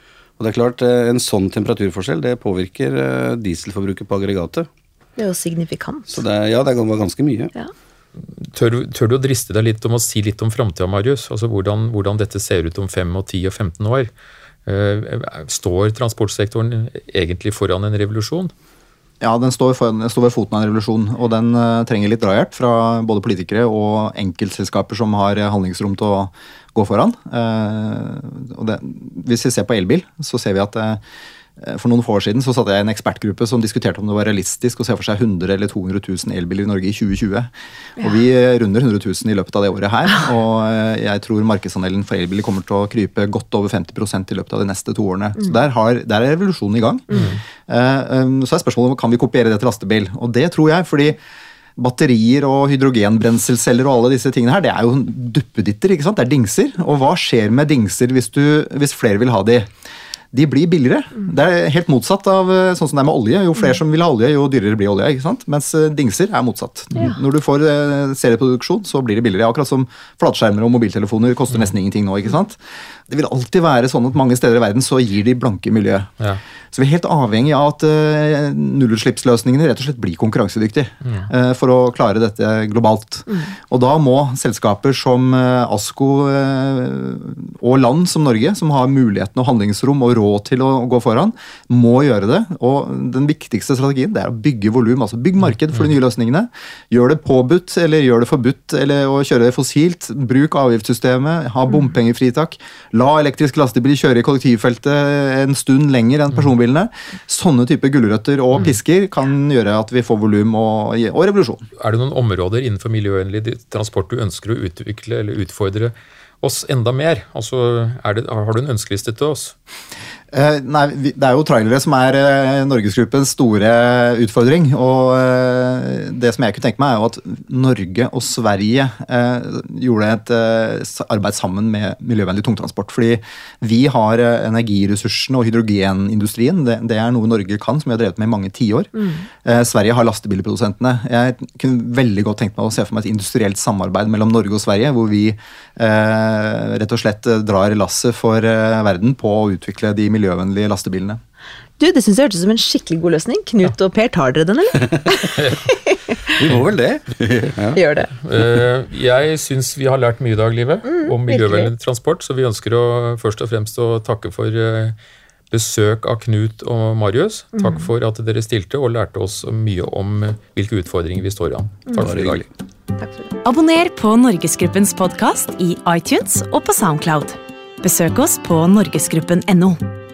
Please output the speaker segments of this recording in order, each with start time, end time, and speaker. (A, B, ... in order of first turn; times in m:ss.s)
0:00.4-0:04.7 A
0:05.2-0:06.2 B
0:06.1-0:07.5 A
0:08.4-0:14.1 C
0:14.6-0:18.5 C
0:19.2-0:31.0 D
0:31.6-0:51.2 D
0:47.1-0:47.4 C
0:51.8-0:59.7 D
1:00.3-1:16.1 D
1:16.7-1:51.6 D
1:51.8-1:59.5 C
2:00.3-2:18.9 D
2:19.4-2:31.2 D
2:31.8-2:35.8 B
2:35.4-2:35.7 C
2:36.4-2:37.8 A
2:37.7-2:38.1 B
2:38.2-2:44.9 C
2:40.8-2:41.7 B
2:45.5-2:52.4 C
2:52.0-2:52.4 A
2:53.0-2:53.3 B
2:53.4-2:59.8 E